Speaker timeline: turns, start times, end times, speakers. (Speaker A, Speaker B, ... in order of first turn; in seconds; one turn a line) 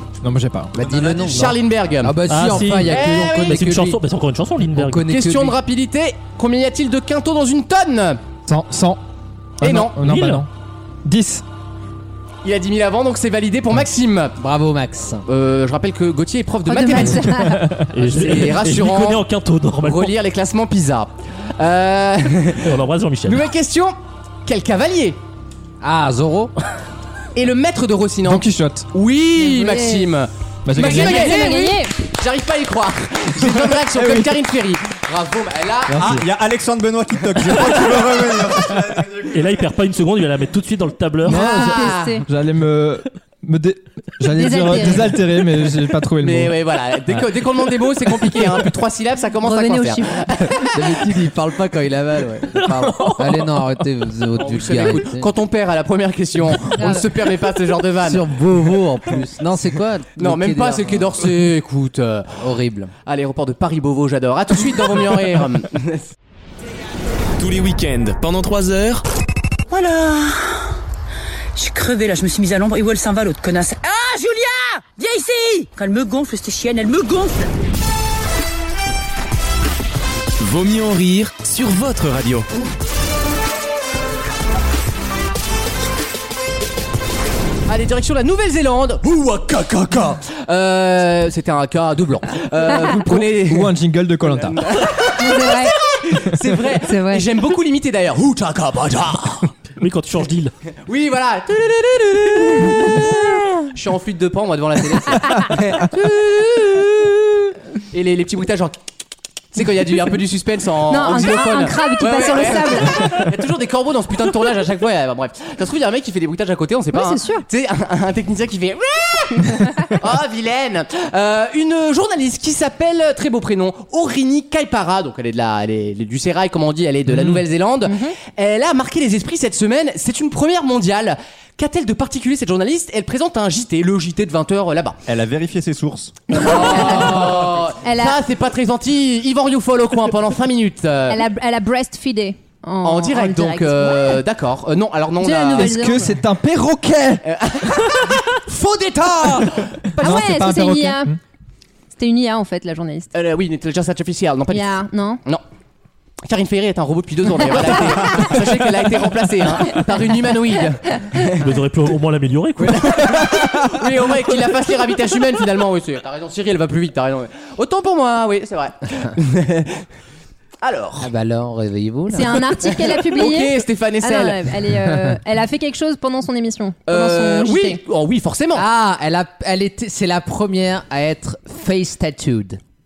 Speaker A: 0.2-0.7
Speaker B: 0.7-4.0
Speaker C: 0.8-2.1
Speaker D: 2.3-5.1
Speaker C: 2.8-3.7
Speaker B: 4.7-5.6
Speaker C: 5.1-8.2
Speaker A: 8.5-9.0
Speaker A: 9.6-10.5
Speaker C: 9.6-10.0
Speaker D: 10.0-10.4
Speaker A: 11.1-11.4
Speaker C: 12.4-14.3
Speaker B: 14.4-15.2
Speaker C: 15.3-17.4
Speaker E: 16.7-17.8
Speaker A: 17.4-17.9
Speaker D: 17.9-20.1
Speaker C: 17.9-19.2
Speaker C: 19.8-22.7
Speaker D: 22.6-23.4
Speaker C: 23.3-25.2
Speaker B: 25.8-26.5
Speaker C: 27.4-36.3
Speaker A: 28.2-28.9
Speaker E: 29.3-30.1
Speaker A: 30.6-31.4
Speaker E: 30.8-31.9
Speaker A: 33.9-34.4
Speaker F: 35.9-39.5
Speaker C: 37.4-38.0
Speaker D: 39.3-41.4
Speaker E: 41.3-42.3
Speaker A: 41.3-47.2
Speaker C: 41.3-42.2
Speaker E: 44.3-45.2
Speaker C: 46.2-51.0
Speaker E: 49.4-50.2
Speaker B: 50.7-55.3
Speaker D: 52.6-53.6
Speaker C: 54.4-58.2
Speaker E: 56.7-57.1
Speaker B: 58.0-61.1
Speaker C: 60.2-62.3
Speaker B: 62.4-62.9
Speaker C: 63.1-66.1
Speaker G: 67.4-69.0
Speaker H: 69.8-70.4
Speaker H: 71.6-77.5
Speaker G: 80.4-82.5
Speaker C: 87.7-99.5
Speaker A: 93.0-94.6
Speaker E: 95.2-95.8
Speaker E: 96.8-97.3
Speaker D: 99.8-100.5
Speaker C: 100.9-108.8
Speaker C: 109.5-135.0
Speaker E: 110.9-113.3
Speaker E: 116.9-117.5
Speaker A: 127.1-127.4
Speaker E: 127.9-128.2
Speaker F: 135.1-136.3
Speaker E: 136.3-138.2
Speaker C: 136.3-141.2
Speaker E: 141.1-144.2
Speaker C: 142.8-145.9
Speaker E: 145.2-146.1
Speaker A: 145.6-147.2
Speaker C: 147.2-150.0
Speaker E: 150.0-151.2
Speaker A: 150.0-151.2
Speaker E: 151.9-153.1
Speaker C: 153.1-155.4
Speaker E: 154.5-155.2
Speaker C: 156.2-161.5
Speaker E: 158.0-158.3
Speaker D: 161.3-163.3
Speaker C: 162.6-169.8
Speaker C: 170.6-171.1
Speaker B: 171.0-172.4
Speaker E: 172.1-177.8
Speaker C: 172.6-174.5
Speaker C: 176.9-178.7
Speaker B: 178.6-182.6